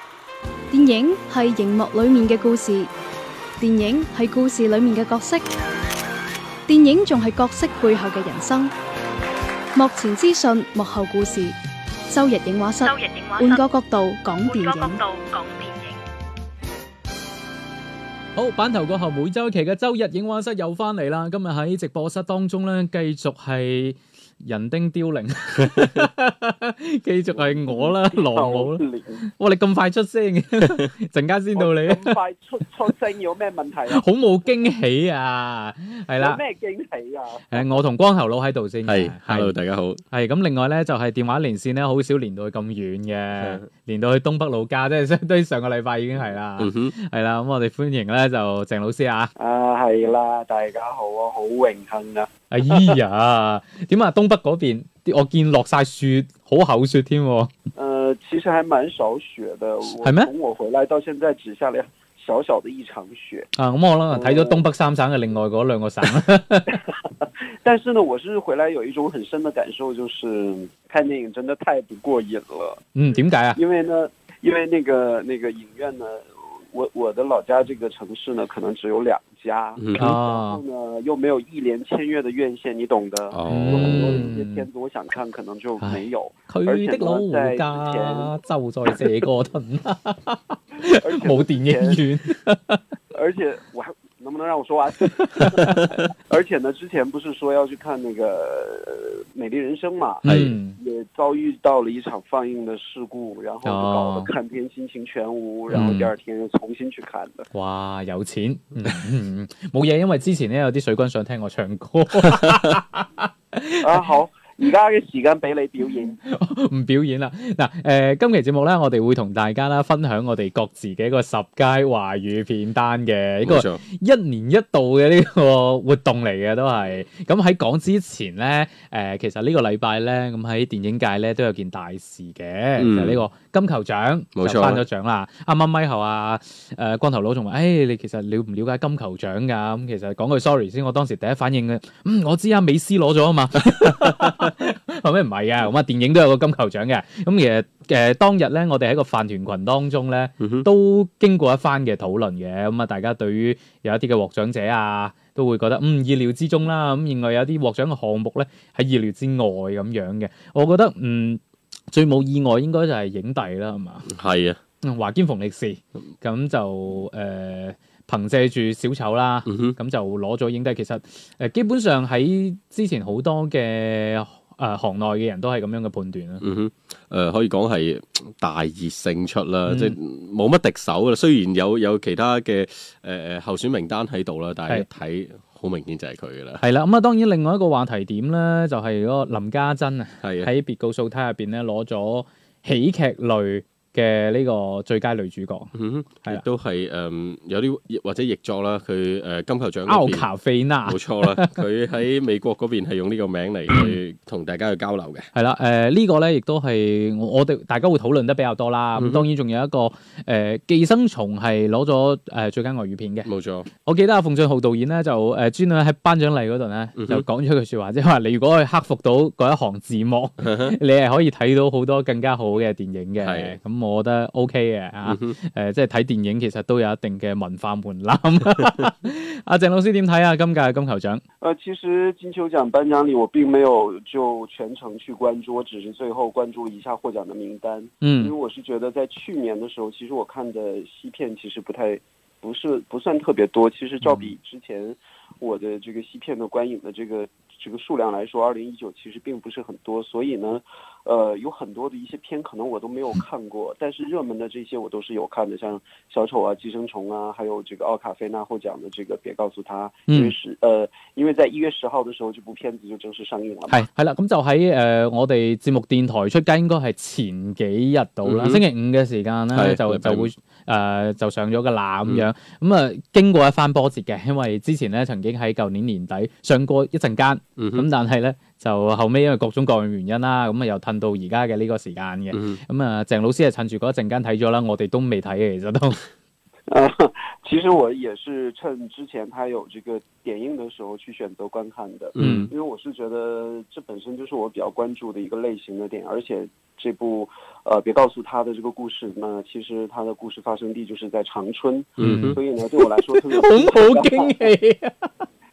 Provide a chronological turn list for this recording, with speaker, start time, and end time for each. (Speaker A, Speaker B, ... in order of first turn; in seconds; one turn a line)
Speaker A: 0.7-2.9
Speaker A: 3.6-5.5
Speaker A: 6.7-8.7
Speaker A: 9.8-11.6
Speaker A: 12.1-15.0
Speaker B: 12.9-13.6
Speaker B: 14.5-16.0
Speaker C: 18.4-32.1
Speaker D: 27.4-29.2
Speaker D: 31.6-34.0
Speaker C: 33.9-36.4
Speaker D: 36.2-37.7
Speaker C: 37.5-39.5
Speaker E: 38.9-40.0
Speaker C: 40.1-49.3
Speaker E: 43.4-43.6
Speaker E: 46.6-46.9
Speaker D: 49.4-53.0
Speaker C: 52.5-57.5
Speaker D: 57.8-63.5
Speaker C: 60.0-60.3
Speaker C: 63.6-66.8
Speaker D: 64.1-64.6
Speaker D: 67.6-72.9
Speaker C: 73.0-73.6
Speaker D: 73.6-88.3
Speaker E: 79.8-80.0
Speaker C: 80.0-80.6
Speaker E: 83.3-84.3
Speaker C: 83.5-84.7
Speaker C: 85.8-92.8
Speaker D: 90.9-92.1
Speaker D: 93.1-100.2
Speaker C: 95.3-96.0
Speaker C: 100.2-100.8
Speaker E: 100.2-100.6
Speaker D: 100.8-107.5
Speaker C: 103.7-104.3
Speaker C: 105.7-106.1
Speaker C: 107.5-114.0
Speaker D: 113.8-116.2
Speaker C: 116.2-161.4
Speaker E: 123.5-123.8
Speaker E: 132.8-133.2
Speaker E: 134.4-134.8
Speaker E: 143.8-144.5
Speaker E: 150.4-150.7
Speaker C: 161.9-164.1
Speaker E: 164.1-164.6
Speaker C: 164.8-176.4
Speaker E: 169.5-169.8
Speaker E: 176.4-186.6
Speaker C: 179.7-179.9
Speaker C: 186.6-195.7
Speaker E: 190.2-190.5
Speaker E: 195.8-200.3
Speaker C: 199.9-201.6
Speaker E: 200.9-205.3
Speaker C: 205.3-213.3
Speaker E: 209.0-209.2
Speaker E: 213.3-213.7
Speaker C: 213.8-231.2
Speaker E: 217.0-217.2
Speaker E: 220.4-220.8
Speaker E: 223.2-223.6
Speaker E: 225.1-225.4
Speaker D: 231.4-263.8
Speaker C: 238.0-238.3
Speaker C: 244.0-244.3
Speaker C: 263.7-286.0
Speaker E: 268.2-268.6
Speaker E: 269.5-270.3
Speaker E: 277.6-277.9
Speaker E: 282.3-282.6
Speaker D: 286.7-304.5
Speaker E: 292.1-292.5
Speaker C: 292.2-292.5
Speaker E: 302.0-302.4
Speaker C: 302.0-305.1